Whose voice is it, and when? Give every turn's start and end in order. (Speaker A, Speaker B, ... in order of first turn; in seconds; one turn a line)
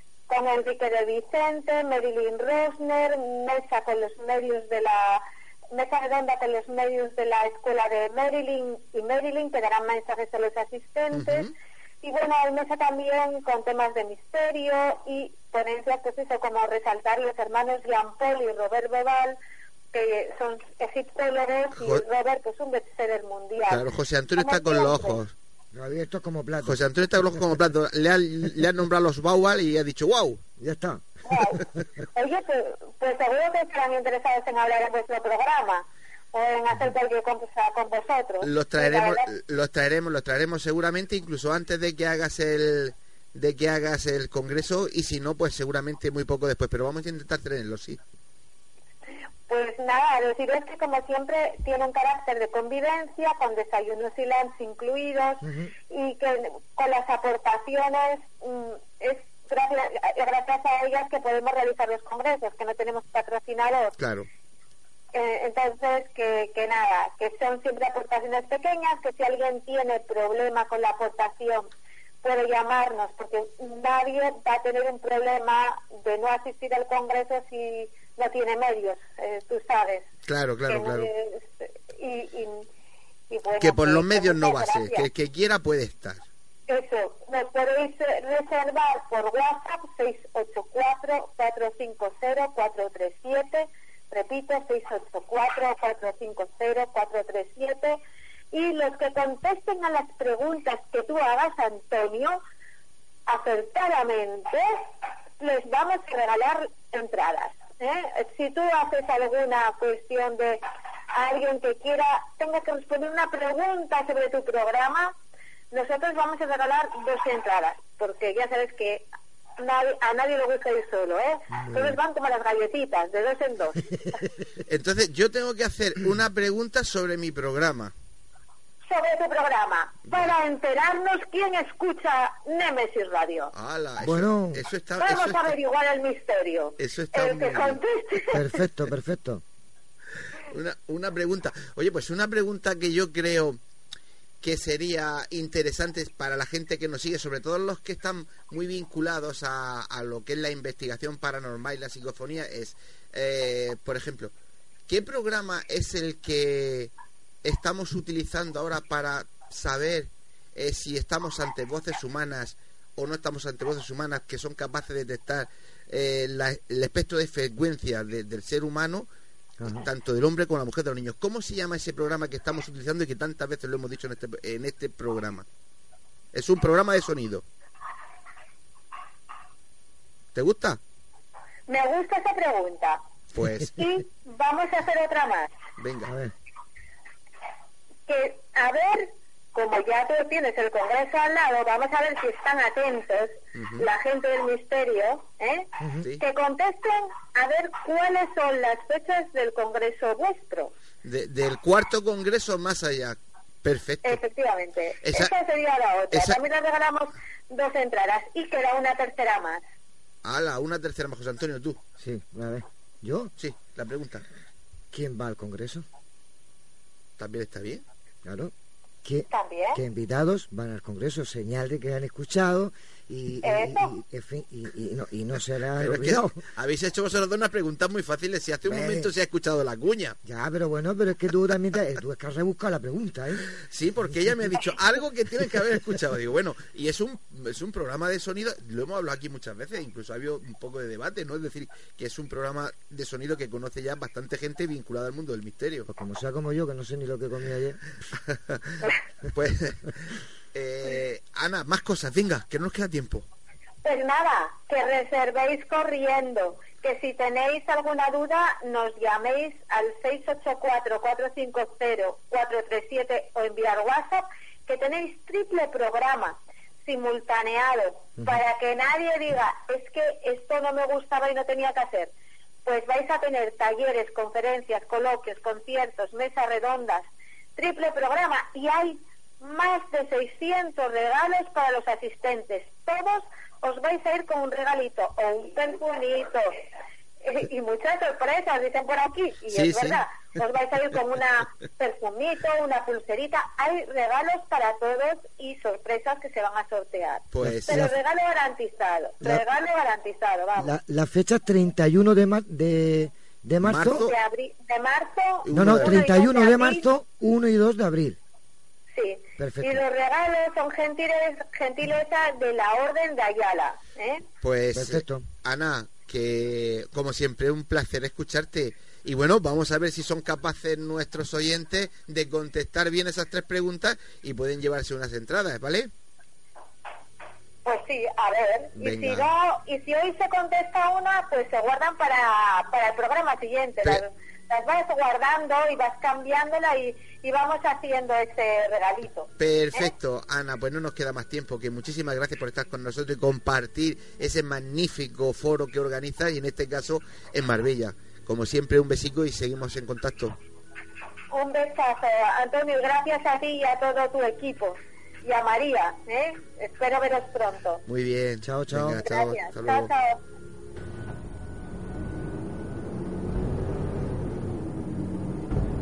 Speaker A: 0.3-11.5
Speaker B: 11.1-11.5
Speaker A: 12.0-19.4
Speaker A: 19.9-23.9
Speaker B: 21.8-22.0
Speaker B: 23.7-25.3
Speaker A: 24.4-25.2
Speaker C: 25.7-26.8
Speaker B: 26.6-30.4
Speaker C: 30.6-31.1
Speaker A: 31.3-31.6
Speaker A: 32.1-39.2
Speaker B: 38.4-48.0
Speaker A: 49.5-64.0
Speaker B: 64.0-64.3
Speaker A: 65.1-71.7
Speaker A: 72.2-80.1
Speaker B: 80.3-81.1
Speaker A: 80.7-82.7
Speaker A: 83.3-85.1
Speaker B: 83.6-86.3
Speaker A: 86.7-98.0
Speaker A: 98.5-102.4
Speaker A: 103.3-104.8
Speaker A: 105.4-110.6
Speaker A: 111.2-115.1
Speaker A: 115.7-119.1
Speaker A: 119.6-123.9
Speaker B: 124.7-127.9
Speaker A: 128.9-133.5
Speaker B: 133.6-135.6
Speaker C: 134.0-134.6
Speaker A: 135.0-138.4
Speaker B: 136.8-137.8
Speaker C: 138.3-139.4
Speaker B: 140.5-143.6
Speaker B: 144.4-154.3
Speaker B: 154.9-156.9
Speaker B: 157.4-169.1
Speaker C: 169.6-169.9
Speaker B: 169.6-175.5
Speaker B: 176.3-177.4
Speaker B: 180.3-180.8
Speaker A: 181.7-183.0
Speaker B: 183.3-183.9
Speaker A: 183.7-185.5
Speaker B: 185.8-186.1
Speaker C: 186.1-186.3
Speaker A: 188.1-200.7
Speaker B: 193.6-193.9
Speaker B: 201.0-204.2
Speaker A: 204.0-209.6
Speaker B: 205.0-205.3
Speaker B: 206.1-206.4
Speaker B: 210.2-211.8
Speaker C: 212.0-213.3
Speaker B: 213.4-214.2
Speaker C: 214.9-215.8
Speaker B: 217.2-217.8
Speaker C: 218.2-218.5
Speaker C: 219.0-226.4
Speaker A: 219.3-219.8
Speaker A: 223.4-223.9
Speaker B: 225.8-230.2
Speaker C: 228.7-229.1
Speaker C: 230.2-233.5
Speaker B: 233.6-245.9
Speaker C: 245.9-247.8
Speaker B: 248.3-248.8
Speaker B: 249.3-253.2
Speaker A: 253.8-272.1
Speaker A: 272.6-286.6
Speaker A: 287.2-300.7
Speaker B: 289.5-290.0
Speaker B: 297.3-297.9
Speaker C: 297.4-297.9
Speaker C: 300.6-304.1
Speaker B: 303.6-304.1
Speaker A: 303.9-306.8
Speaker B: 305.5-306.1
Speaker C: 305.5-308.2
Speaker A: 308.9-314.2
Speaker C: 309.4-309.8
Speaker B: 314.4-325.9
Speaker C: 314.7-315.3
Speaker A: 327.6-339.9
Speaker B: 328.8-329.3
Speaker B: 339.4-350.4
Speaker A: 351.3-357.8
Speaker B: 357.9-359.9
Speaker C: 358.4-359.0
Speaker A: 359.0-360.2